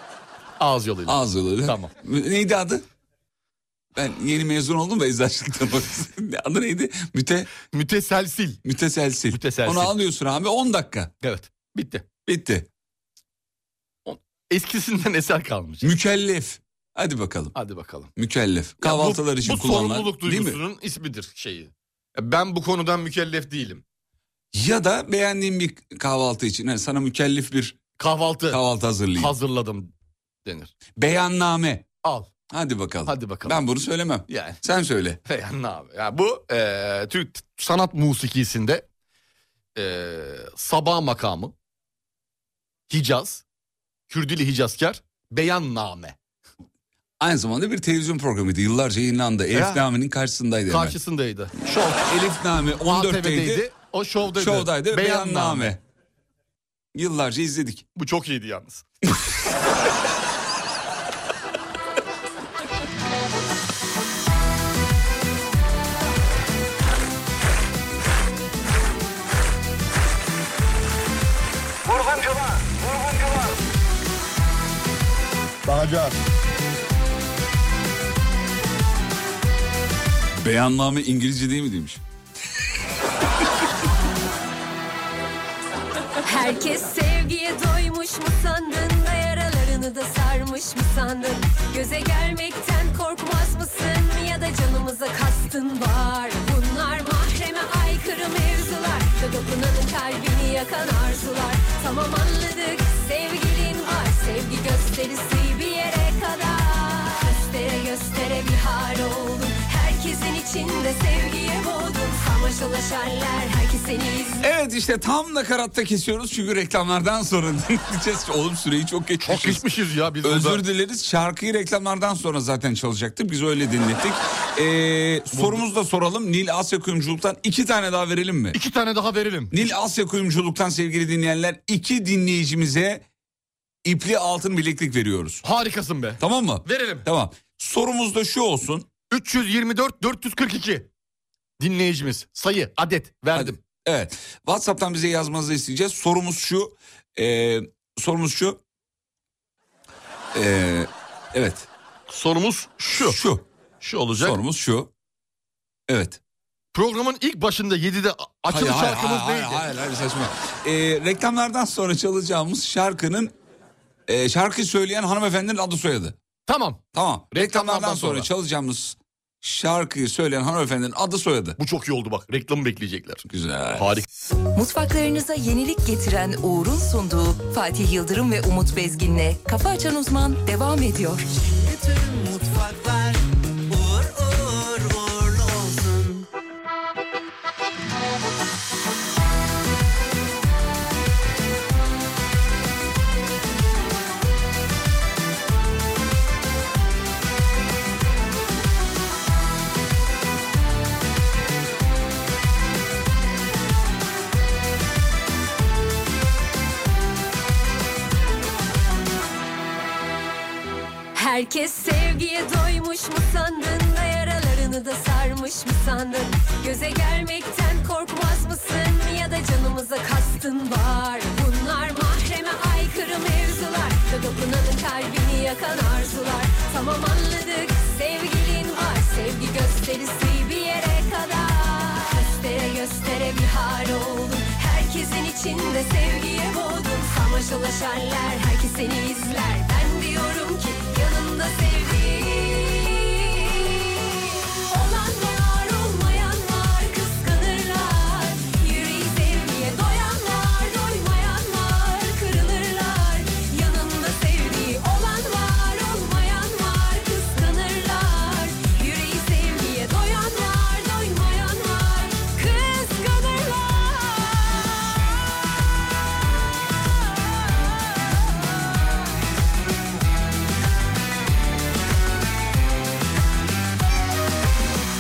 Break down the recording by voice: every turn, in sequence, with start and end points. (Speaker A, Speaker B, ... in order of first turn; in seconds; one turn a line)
Speaker A: 0.6-1.9
Speaker B: 1.1-2.8
Speaker B: 4.0-7.5
Speaker A: 7.7-8.6
Speaker B: 8.7-11.1
Speaker A: 9.3-9.9
Speaker A: 11.2-12.1
Speaker B: 12.3-12.7
Speaker A: 14.1-15.9
Speaker B: 15.8-17.6
Speaker A: 17.6-18.1
Speaker B: 18.2-20.6
Speaker A: 18.8-23.8
Speaker B: 24.5-27.8
Speaker A: 28.0-28.6
Speaker B: 28.5-29.4
Speaker A: 29.1-29.9
Speaker A: 30.4-30.7
Speaker B: 31.0-31.9
Speaker A: 32.0-32.3
Speaker B: 32.5-35.2
Speaker A: 33.1-33.6
Speaker A: 34.3-34.6
Speaker A: 35.3-38.9
Speaker A: 39.8-41.5
Speaker A: 42.9-43.4
Speaker A: 44.1-46.2
Speaker B: 47.2-51.0
Speaker A: 49.5-49.8
Speaker A: 50.7-52.1
Speaker B: 52.0-53.7
Speaker A: 52.9-55.7
Speaker B: 54.3-55.8
Speaker B: 56.9-57.9
Speaker A: 58.0-58.8
Speaker A: 75.7-76.1
Speaker B: 80.4-82.0
Speaker C: 86.2-114.4
Speaker B: 114.4-119.7
Speaker A: 119.2-120.6
Speaker B: 120.2-128.6
Speaker A: 125.3-125.6
Speaker A: 128.5-129.6
Speaker B: 129.5-133.1
Speaker B: 133.8-135.4
Speaker A: 135.4-137.1
Speaker B: 136.2-138.9
Speaker A: 139.1-140.9
Speaker A: 141.6-143.6
Speaker B: 143.3-148.6
Speaker B: 150.3-151.7
Speaker A: 152.1-153.2
Speaker B: 152.9-153.4
Speaker A: 153.8-154.4
Speaker B: 154.2-154.9
Speaker B: 155.9-156.2
Speaker A: 156.7-159.6
Speaker B: 158.5-163.3
Speaker B: 164.1-166.2
Speaker A: 166.5-166.8
Speaker B: 166.9-171.6
Speaker A: 167.3-168.3
Speaker A: 171.6-174.1
Speaker B: 173.3-173.9
Speaker D: 174.6-181.3
Speaker E: 181.4-186.3
Speaker C: 211.2-243.7
Speaker C: 244.7-264.6